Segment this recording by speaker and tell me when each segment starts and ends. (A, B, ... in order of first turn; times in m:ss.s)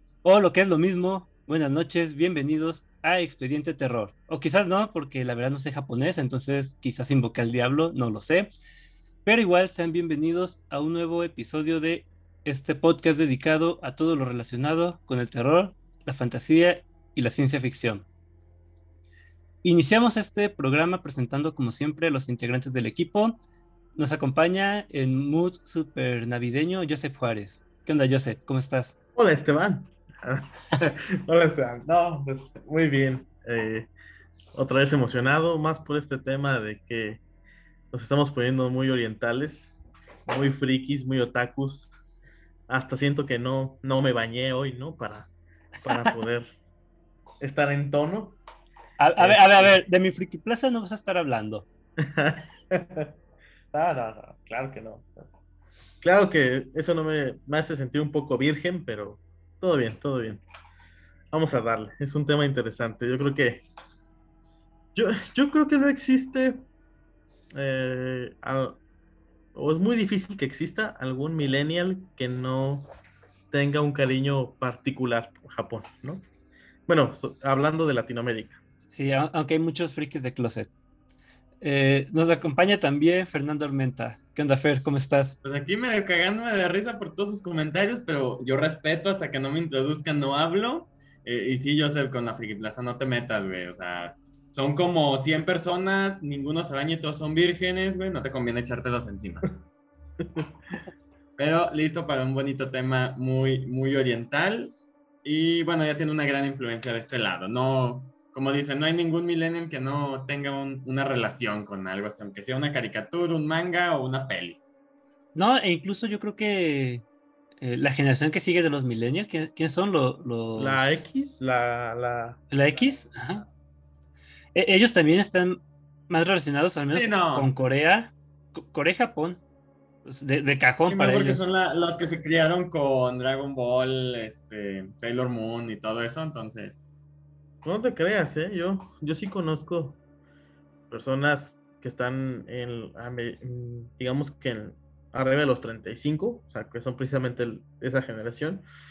0:00.2-0:08.5 A
0:09.2-0:18.0 A
0:19.6-0:23.4 A
0:24.0-0:29.0 A
0:29.2-0:33.9 B
0:34.6-0:37.2 B
0:37.9-0:39.7 B
0:40.3-0:41.9 B
0:42.7-0:45.3 B
0:45.8-0:46.5 B
0:47.4-0:48.4 B
0:49.0-0:51.7 A
0:49.2-0:49.8 B
0:52.0-0:53.1 B
0:53.7-0:55.3 B
0:56.0-1:00.4 B
1:01.3-1:03.6 B
1:05.0-1:06.6 B
1:07.5-1:08.8 B
1:09.6-1:12.9 B
1:13.5-1:16.2 B
1:16.9-1:18.6 B
1:18.9-1:20.7 A
1:21.6-1:25.4 A
1:25.4-1:39.6 C
1:41.4-1:54.6 C
1:55.3-1:57.0 A
1:57.6-2:01.1 A
2:00.6-2:02.5 B
2:02.5-2:03.4 A
2:04.5-2:09.4 A
2:06.9-2:07.5 C
2:10.0-2:11.4 A
2:10.9-2:16.9 C
2:17.6-2:20.0 B
2:20.9-2:28.6 B